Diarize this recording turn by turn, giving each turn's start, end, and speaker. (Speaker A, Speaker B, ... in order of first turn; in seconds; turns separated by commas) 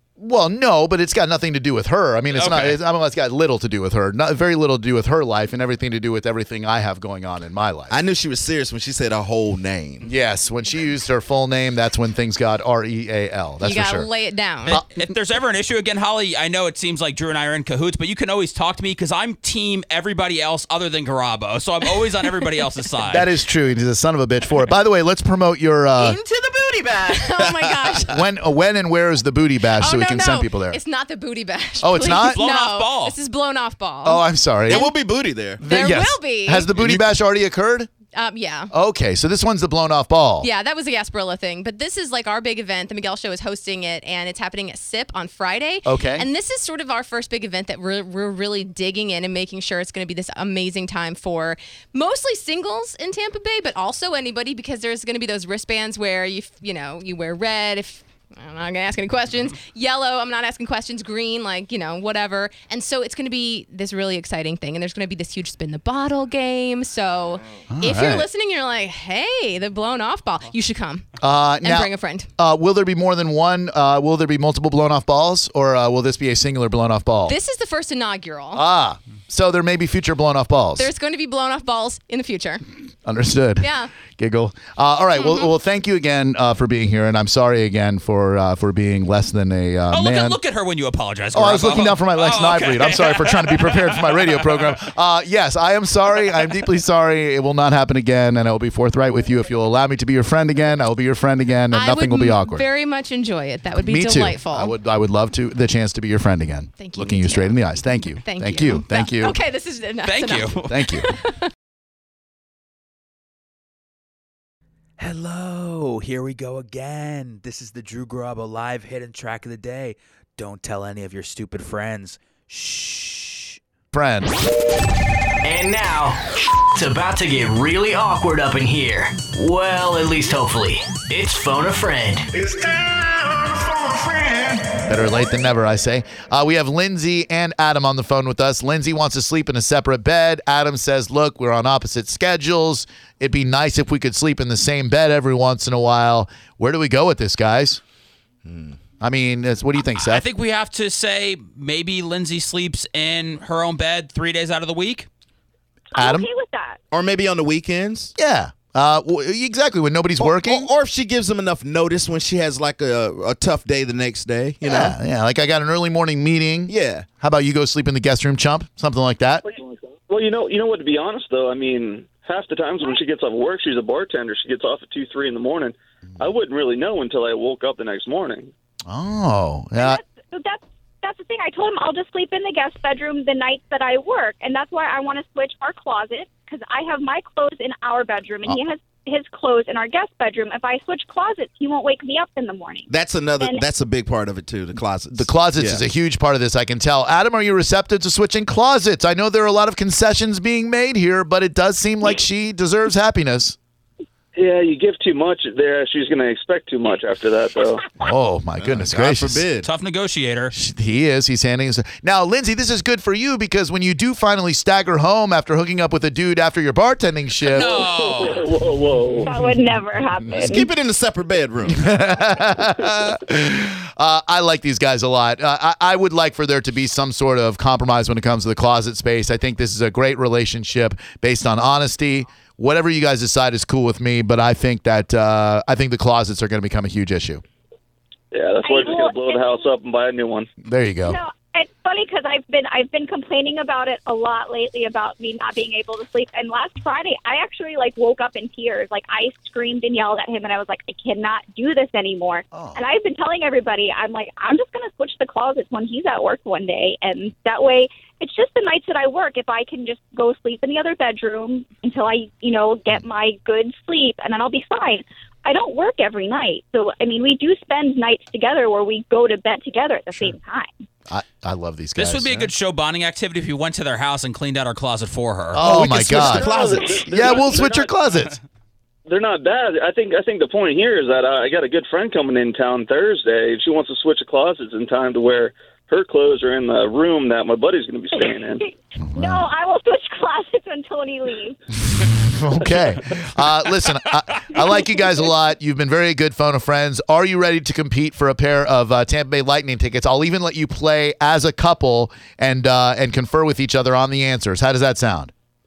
Speaker A: 0.2-8.0, Speaker B: 2.3-2.8, Speaker C: 7.9-10.1, Speaker A: 10.0-14.1, Speaker D: 13.6-14.8, Speaker B: 14.7-23.3, Speaker A: 23.1-26.2, Speaker D: 26.7-28.1, Speaker C: 27.4-28.0, Speaker A: 28.1-30.8, Speaker D: 29.8-34.9, Speaker A: 31.8-32.4, Speaker B: 32.1-33.1, Speaker A: 34.0-34.9, Speaker C: 34.7-35.6, Speaker D: 35.6-36.7, Speaker A: 35.6-37.9, Speaker C: 36.8-37.1, Speaker D: 38.1-38.7, Speaker A: 38.7-40.5, Speaker D: 40.4-71.1, Speaker A: 45.9-46.3, Speaker A: 67.7-68.3, Speaker A: 71.2-77.3, Speaker D: 71.6-72.3, Speaker D: 77.3-78.6, Speaker A: 78.5-80.9, Speaker D: 80.8-82.7, Speaker A: 83.0-90.4, Speaker D: 83.6-83.9, Speaker D: 85.2-85.5, Speaker B: 89.9-94.3, Speaker A: 91.3-102.7, Speaker D: 101.7-104.7, Speaker A: 103.8-109.3, Speaker D: 106.8-107.5, Speaker D: 108.2-111.4, Speaker B: 110.0-110.8, Speaker A: 110.7-111.1, Speaker E: 115.0-123.6, Speaker A: 123.9-124.3, Speaker F: 125.4-132.3, Speaker A: 134.9-147.8, Speaker C: 148.4-148.8, Speaker A: 149.0-150.3, Speaker B: 150.0-155.1, Speaker G: 155.9-156.8, Speaker A: 155.9-156.3, Speaker C: 156.9-158.1, Speaker A: 158.2-160.7, Speaker C: 160.2-164.9, Speaker A: 164.6-169.4, Speaker C: 166.7-167.1, Speaker H: 170.1-178.5, Speaker A: 178.9-180.0, Speaker G: 179.8-193.6, Speaker C: 192.9-195.8, Speaker A: 195.1-203.6, Speaker H: 204.3-207.9, Speaker A: 208.0-209.5, Speaker C: 208.6-209.7, Speaker B: 209.6-210.5, Speaker A: 210.5-217.8, Speaker B: 217.5-218.4, Speaker H: 217.6-219.3, Speaker G: 219.2-220.7, Speaker C: 220.4-221.9, Speaker A: 221.7-237.4, Speaker H: 238.3-240.5, Speaker G: 238.6-239.5, Speaker A: 240.6-241.2, Speaker G: 241.1-270.7, Speaker A: 252.5-252.8, Speaker A: 271.1-272.5, Speaker B: 272.0-275.6, Speaker A: 275.5-278.4, Speaker C: 275.6-277.6, Speaker H: 276.1-277.9, Speaker H: 279.1-288.6, Speaker G: 288.6-291.6, Speaker A: 289.0-289.5, Speaker A: 292.0-305.3